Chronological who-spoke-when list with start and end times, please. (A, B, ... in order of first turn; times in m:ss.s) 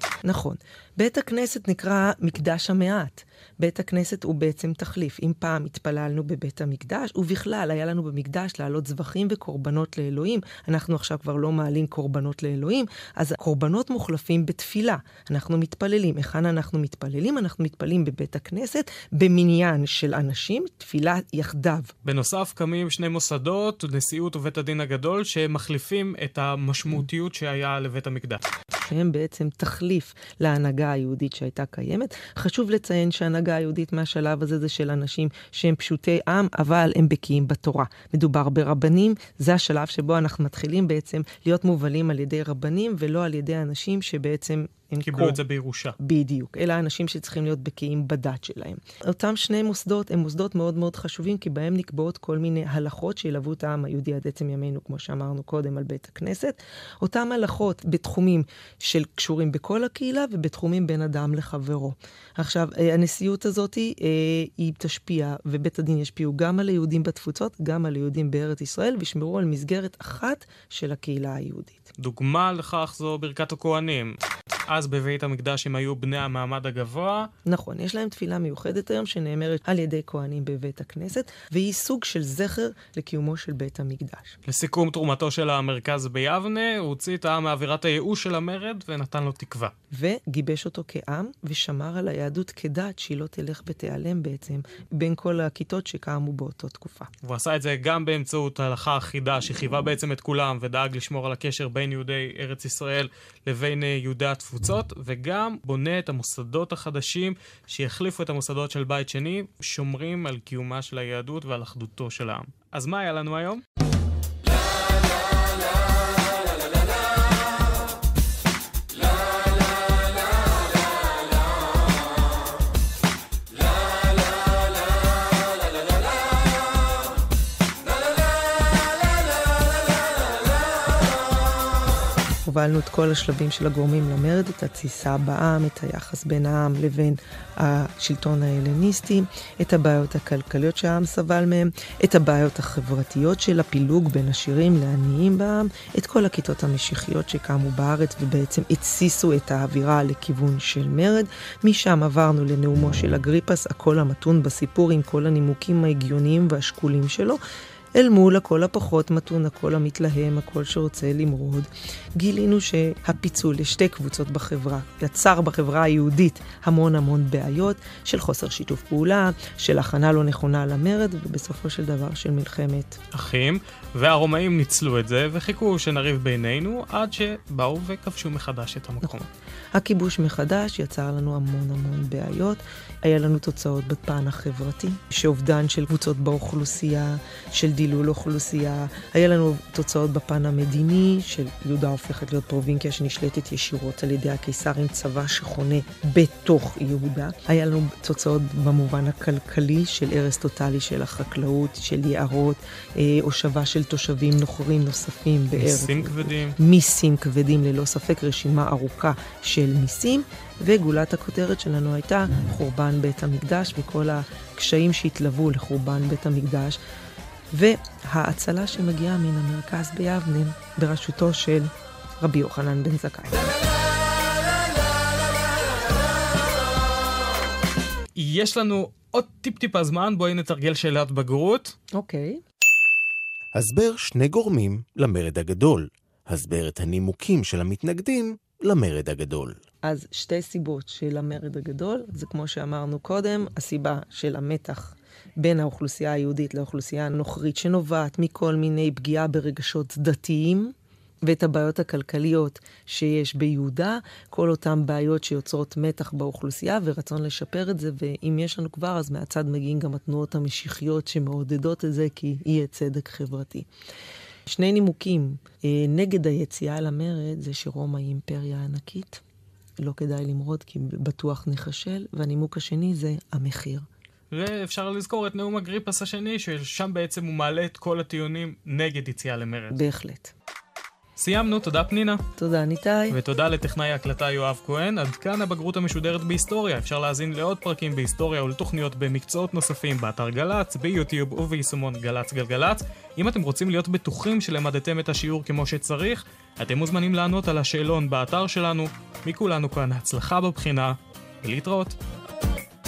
0:00.2-0:21.9 A
0:22.0-0:28.4 B
0:28.8-0:45.4 A
0:45.0-0:46.0 B
0:46.0-1:11.9 A
1:12.0-1:17.3 B
1:17.4-1:24.4 A
1:24.4-1:29.7 B
1:29.9-1:37.1 A
1:37.2-1:53.6 B
2:12.4-2:37.4 A
2:37.9-2:53.0 A
2:53.1-2:59.2 B
2:59.0-3:36.8 A
3:25.5-3:26.6 B
3:37.5-3:41.7 A
3:42.2-3:43.4 A
3:48.2-3:51.7 B
3:51.9-3:52.4 A
3:53.5-3:59.6 C
3:59.8-4:23.7 A
4:24.4-4:29.2 A
4:29.8-4:33.8 A
4:34.3-4:39.8 B
4:39.7-4:40.3 A
4:41.2-4:42.2 B
4:42.4-4:43.2 A
4:43.1-5:02.0 B